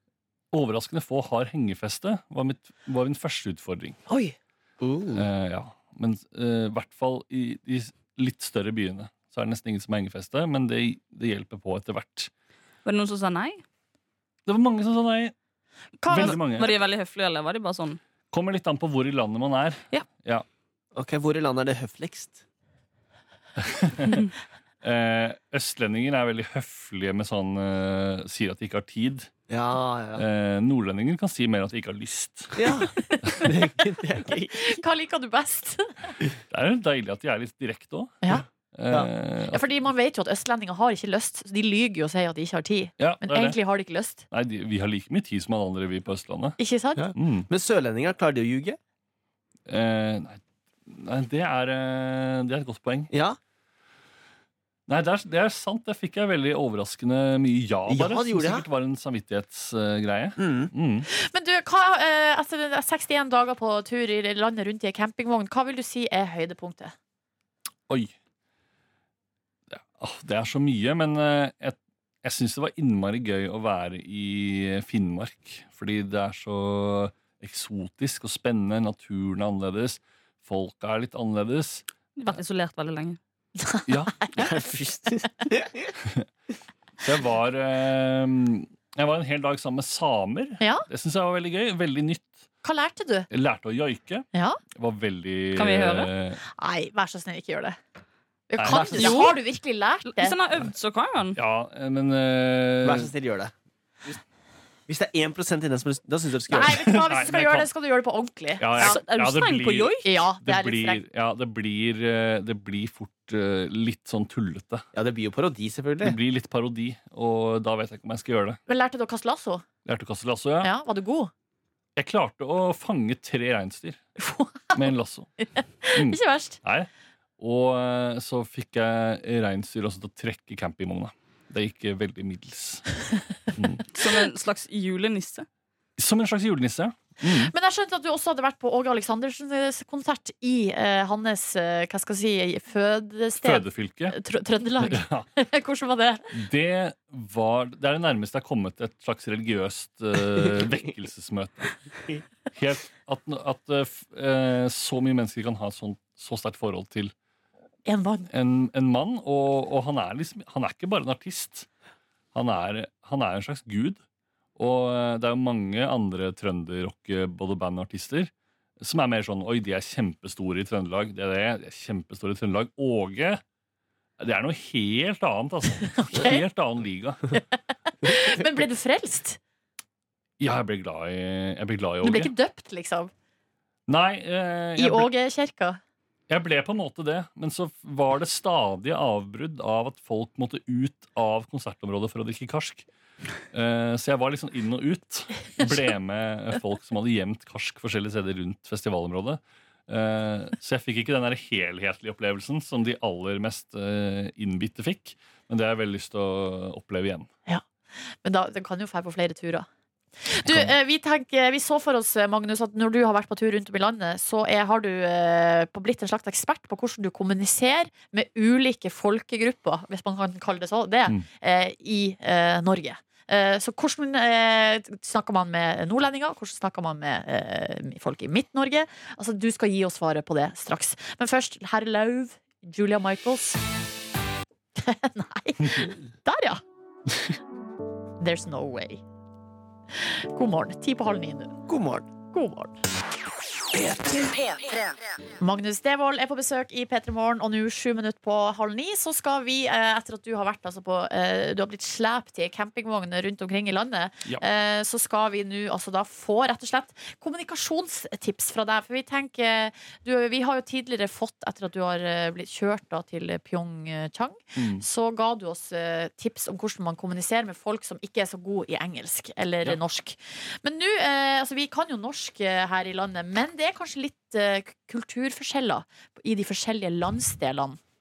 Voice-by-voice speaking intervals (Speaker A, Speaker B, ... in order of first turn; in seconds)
Speaker A: 0.5-4.0, 5.1-12.3, 14.5-15.3, 16.1-16.7, 18.3-20.5, 23.6-24.2, 24.8-29.3, 30.1-32.6, 36.5-38.2, 38.7-39.6, 43.0-43.6, 44.3-46.6, 47.1-47.5, 49.7-53.1, 54.9-61.1, 67.9-68.2, 69.7-82.4, 83.9-84.3, 87.0-92.5, 93.3-96.4, 98.6-99.3, 101.3-103.1, 106.6-107.7, 108.6-114.8, 116.0-118.6, 119.9-120.7, 122.0-124.0, 124.7-125.3, 126.0-133.0, 133.6-134.0, 136.0-137.5, 143.4-144.2, 144.8-145.3, 146.3-151.9, 152.5-157.1, 158.3-161.7, 162.3-164.0, 164.6-173.4, 174.2-177.4, 180.4-182.3, 183.9-185.1, 186.3-192.9, 193.5-207.3, 210.5-210.7, 264.6-264.8
Speaker B: 4.1-4.3, 16.0-16.4, 33.0-33.5, 34.5-36.1, 39.5-44.2, 46.6-47.0, 61.2-67.0, 83.6-84.5, 90.6-90.9, 92.6-93.3, 94.3-94.6, 96.6-97.8, 98.5-100.4, 106.5-109.0, 110.0-111.0, 118.7-119.7, 120.6-121.3, 124.2-126.6, 137.3-146.2, 157.9-158.3, 176.0-176.4, 178.1-179.4, 182.0-183.1, 184.8-185.8, 208.2-209.7, 210.3-233.6, 234.8-236.6, 238.2-239.0, 240.0-241.6, 242.2-242.8, 245.4-277.8
Speaker C: 4.8-5.3, 20.9-22.4, 29.5-30.2, 32.6-34.8, 38.3-39.1, 47.0-48.8, 53.1-53.4, 57.9-58.7, 60.4-60.7, 84.4-85.9, 102.8-103.5, 104.9-106.8, 114.9-116.2, 178.1-178.4, 241.7-242.1, 243.7-244.4
Speaker D: 12.8-13.6, 16.2-18.0, 82.2-83.2, 95.6-96.1, 98.9-99.4, 100.1-101.4, 108.8-110.1, 133.9-135.5